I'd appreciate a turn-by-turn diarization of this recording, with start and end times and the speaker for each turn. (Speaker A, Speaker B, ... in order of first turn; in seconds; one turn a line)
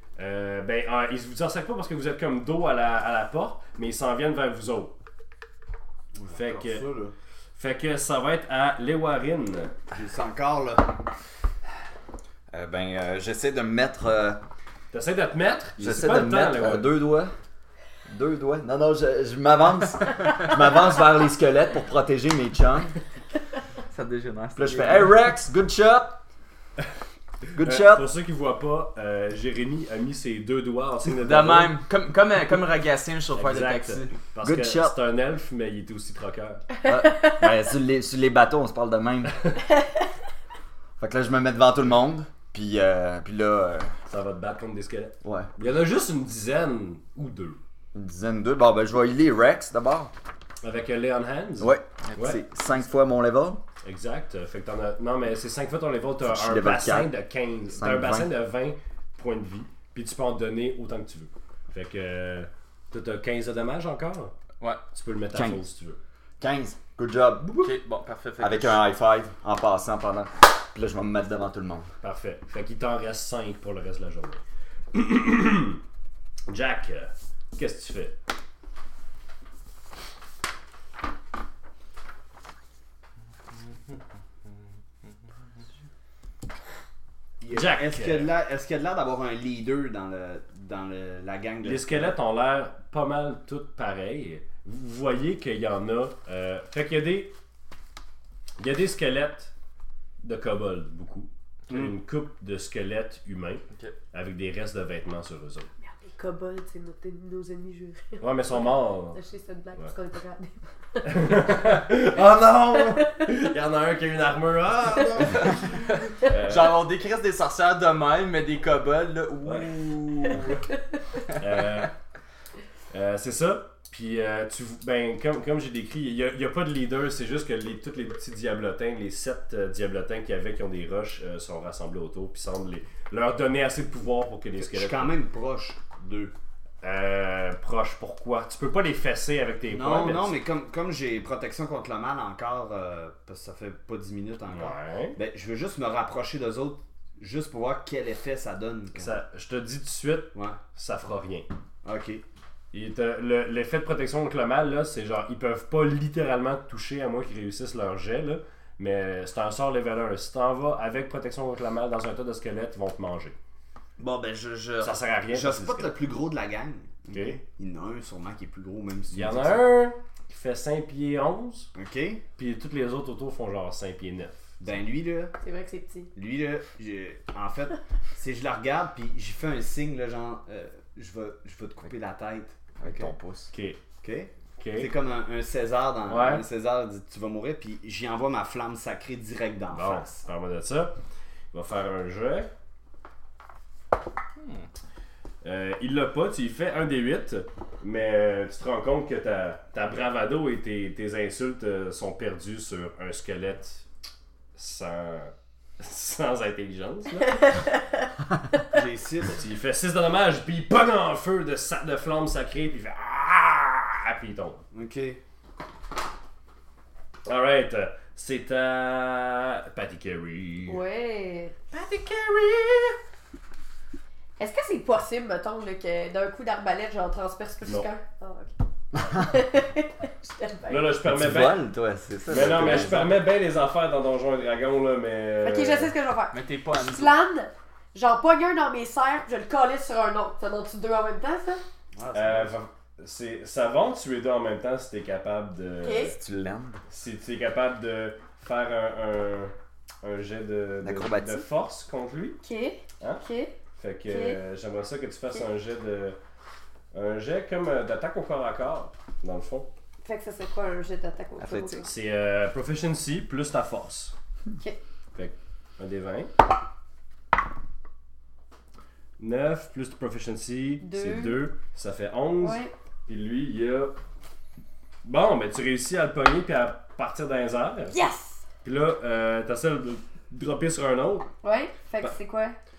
Speaker A: 0.1-5.0
Speaker B: 6.1-7.1
Speaker A: 6.3-6.8
Speaker A: 7.5-9.7
Speaker B: 9.9-10.9
Speaker C: 12.5-14.4
Speaker A: 14.9-16.9
Speaker C: 15.8-17.3
Speaker C: 18.0-23.0
Speaker D: 23.9-25.1
Speaker C: 24.6-26.2
Speaker C: 27.6-28.1
Speaker A: 27.6-31.8
Speaker D: 31.1-34.1
Speaker A: 33.3-36.7
Speaker C: 34.4-34.9
Speaker C: 36.9-39.3
Speaker E: 37.1-37.4
Speaker C: 41.0-44.0
Speaker A: 44.1-47.6
Speaker C: 45.2-45.5
Speaker C: 47.9-50.1
Speaker A: 50.6-52.4
Speaker C: 51.6-53.6
Speaker D: 52.0-52.4
Speaker A: 53.8-64.3
Speaker C: 56.2-57.1
Speaker C: 57.7-58.3
Speaker A: 64.9-66.0
Speaker C: 65.3-65.6
Speaker C: 66.4-67.7
Speaker D: 67.6-68.8
Speaker C: 68.4-71.9
Speaker A: 72.0-74.4
Speaker A: 74.9-75.8
Speaker A: 76.5-78.2
Speaker D: 83.5-84.0
Speaker D: 85.0-85.6
Speaker B: 87.4-92.1
Speaker A: 87.5-88.3
Speaker A: 91.6-97.3
Speaker A: 98.6-99.5
Speaker A: 100.2-105.7
Speaker B: 101.7-102.0
Speaker D: 103.7-104.0
Speaker E: 105.8-111.7
Speaker A: 108.2-109.2
Speaker A: 111.0-116.9
Speaker E: 112.9-113.3
Speaker D: 115.9-120.6
Speaker A: 119.4-119.7
Speaker A: 121.3-121.9
Speaker A: 122.9-135.1
Speaker B: 134.6-136.3
Speaker A: 136.8-140.4
Speaker B: 139.7-149.1
Speaker A: 144.5-145.2
Speaker A: 148.9-151.5
Speaker B: 150.3-150.6
Speaker B: 151.8-152.2
Speaker A: 152.7-163.3
Speaker B: 164.0-169.7
Speaker A: 164.8-165.9
Speaker A: 167.1-167.4
Speaker A: 169.1-171.7
Speaker B: 171.7-172.2
Speaker A: 172.4-174.5
Speaker B: 174.6-175.3
Speaker E: 175.4-176.1
Speaker B: 176.1-183.1
Speaker C: 182.8-183.5
Speaker A: 183.5-183.8
Speaker B: 184.0-190.2
Speaker A: 184.6-184.9
Speaker A: 186.1-186.4
Speaker A: 189.7-190.9
Speaker A: 191.5-192.5
Speaker D: 194.4-194.7
Speaker A: 195.4-203.8
Speaker A: 204.5-207.6
Speaker E: 207.2-207.8
Speaker B: 208.7-209.4
Speaker A: 209.3-214.6
Speaker B: 214.7-215.2
Speaker A: 217.2-220.8
Speaker E: 220.7-221.5
Speaker A: 221.7-223.0
Speaker E: 224.4-231.0
Speaker A: 230.7-231.7
Speaker C: 231.0-233.1
Speaker A: 232.3-235.9
Speaker B: 232.3-233.2
Speaker E: 235.4-241.6
Speaker D: 236.3-237.2
Speaker B: 241.9-242.6
Speaker A: 242.1-246.1
Speaker E: 245.8-246.1
Speaker C: 246.1-246.8
Speaker A: 246.9-252.4
Speaker C: 250.8-251.4
Speaker E: 252.4-253.5
Speaker A: 253.7-256.2
Speaker E: 254.1-254.4
Speaker A: 256.9-259.7
Speaker E: 260.0-261.9
Speaker C: 261.4-261.8
Speaker A: 261.8-264.1
Speaker A: 265.1-266.3
Speaker A: 269.2-273.9
Speaker E: 270.8-271.4
Speaker E: 272.4-272.7
Speaker A: 275.0-278.0
Speaker E: 277.9-278.4
Speaker A: 278.6-281.3
Speaker E: 281.4-282.6